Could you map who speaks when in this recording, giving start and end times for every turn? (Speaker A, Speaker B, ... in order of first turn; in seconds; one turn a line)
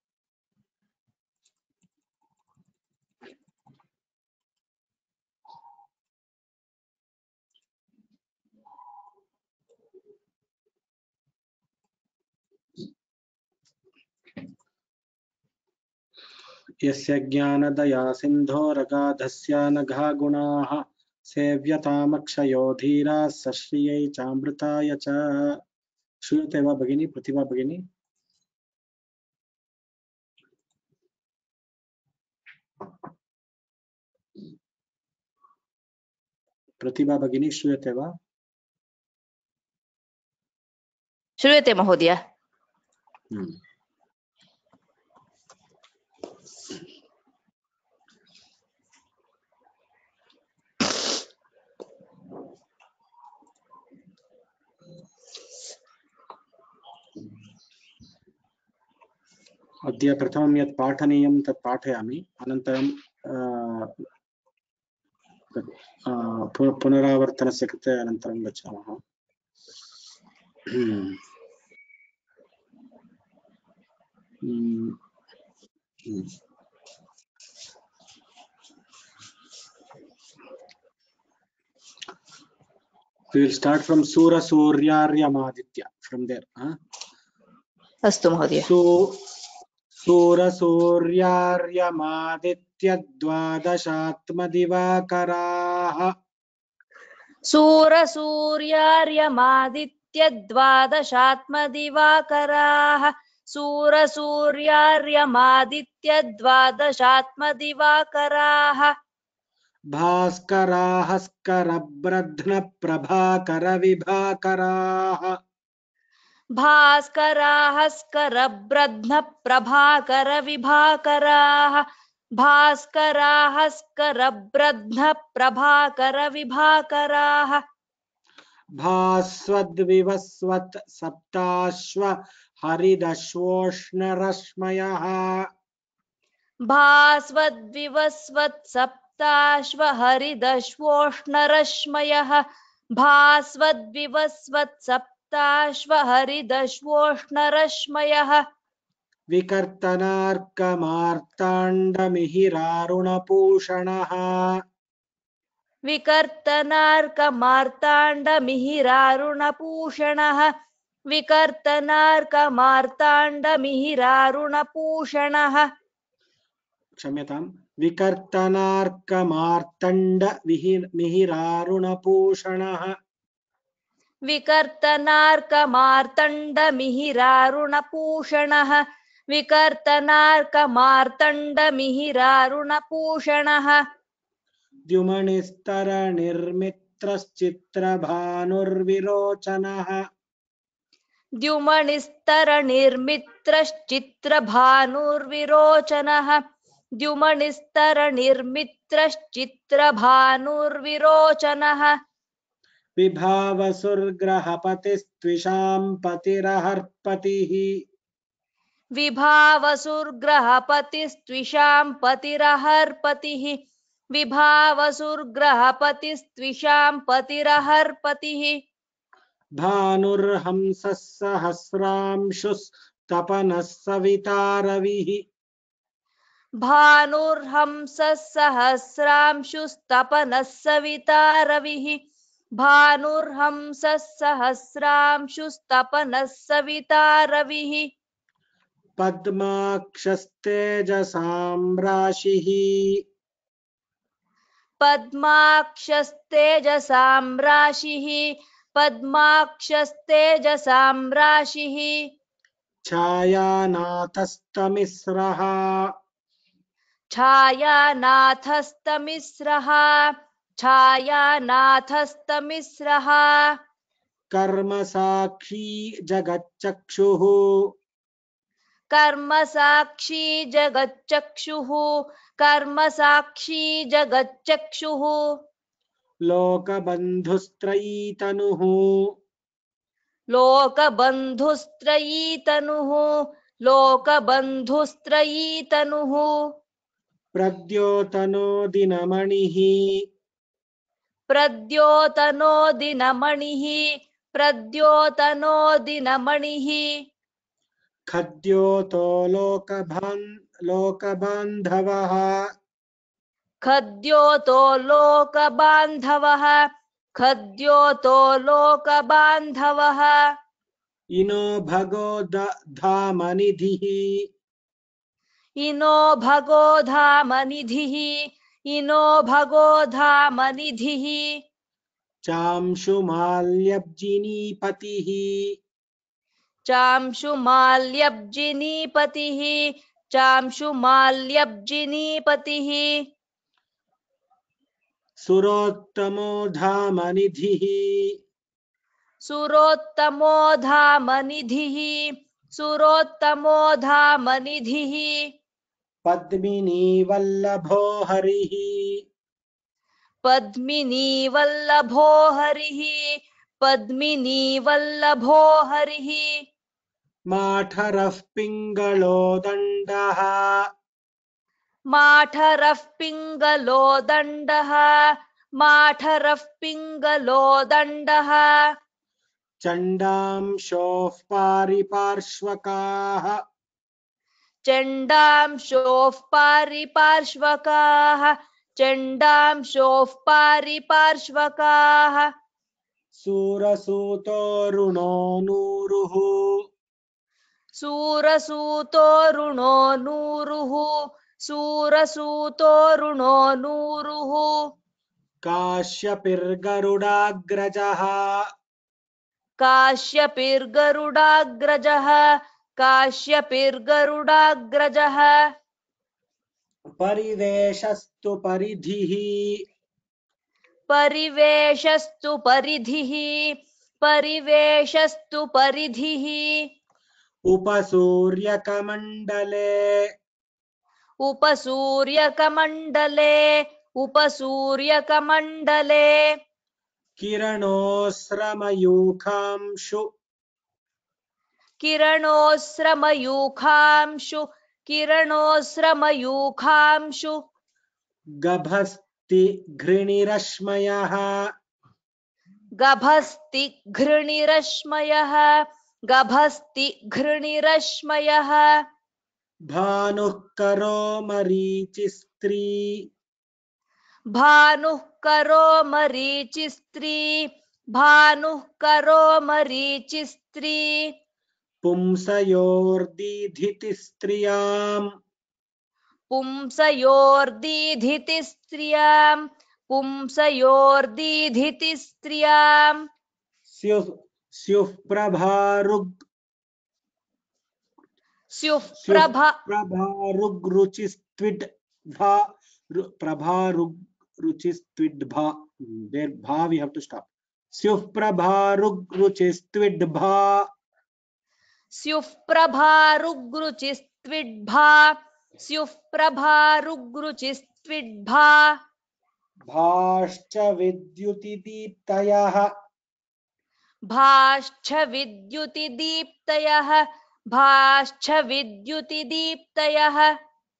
Speaker A: 16.8-25.6
Speaker A: 26.2-27.8
Speaker A: 36.8-38.1
Speaker B: 41.4-42.2
Speaker A: 43.3-43.6
Speaker A: 59.9-64.0
Speaker A: 65.5-69.0
Speaker A: 70.7-71.2
Speaker A: 74.4-75.0
Speaker A: 76.0-76.3
Speaker A: 83.3-86.8
Speaker B: 88.0-88.7
Speaker A: 88.6-89.2
Speaker A: 90.0-96.1
Speaker B: 97.5-108.9
Speaker A: 109.9-115.4
Speaker B: 116.5-121.8
Speaker B: 122.4-127.6
Speaker A: 128.8-135.5
Speaker B: 136.7-142.4
Speaker B: 143.0-148.4
Speaker A: 149.3-154.6
Speaker B: 155.8-160.5
Speaker B: 161.1-165.7
Speaker A: 167.0-173.0
Speaker B: 174.3-183.8
Speaker A: 184.9-190.1
Speaker B: 191.4-196.4
Speaker B: 197.0-202.0
Speaker A: 203.0-207.8
Speaker B: 208.9-213.6
Speaker B: 214.1-218.6
Speaker A: 219.6-225.2
Speaker B: 226.6-232.0
Speaker B: 232.6-237.9
Speaker A: 239.0-243.0
Speaker B: 244.8-252.1
Speaker A: 252.8-255.9
Speaker B: 257.1-263.5
Speaker A: 264.3-267.7
Speaker B: 268.9-275.2
Speaker A: 276.2-279.1
Speaker B: 280.3-283.1
Speaker B: 283.6-286.3
Speaker A: 287.3-290.0
Speaker B: 291.3-296.9
Speaker A: 298.1-302.5
Speaker B: 303.6-306.6
Speaker B: 307.2-310.2
Speaker A: 311.1-314.3
Speaker B: 315.6-321.3
Speaker A: 322.2-325.6
Speaker B: 326.7-332.9
Speaker A: 335.2-338.2
Speaker B: 339.2-345.2
Speaker A: 346.0-349.0
Speaker B: 350.2-353.0
Speaker B: 353.6-356.3
Speaker A: 357.3-360.7
Speaker B: 361.9-365.1
Speaker B: 365.6-368.6
Speaker A: 369.6-373.4
Speaker B: 374.6-382.3
Speaker A: 383.1-386.6
Speaker B: 387.8-394.6
Speaker A: 395.4-398.4
Speaker B: 399.6-402.2
Speaker B: 402.8-405.3
Speaker A: 407.0-409.6
Speaker B: 410.9-416.6
Speaker A: 417.4-420.1
Speaker B: 421.2-426.2
Speaker A: 427.2-430.1
Speaker B: 431.8-437.4
Speaker A: 438.4-441.3
Speaker B: 442.8-448.7
Speaker A: 449.7-453.1
Speaker B: 454.3-461.1
Speaker A: 461.8-465.1
Speaker B: 466.3-473.0
Speaker A: 473.7-476.2
Speaker B: 478.5-479.6
Speaker A: 478.9-490.7
Speaker B: 491.9-498.7
Speaker A: 499.7-502.7
Speaker B: 504.1-510.3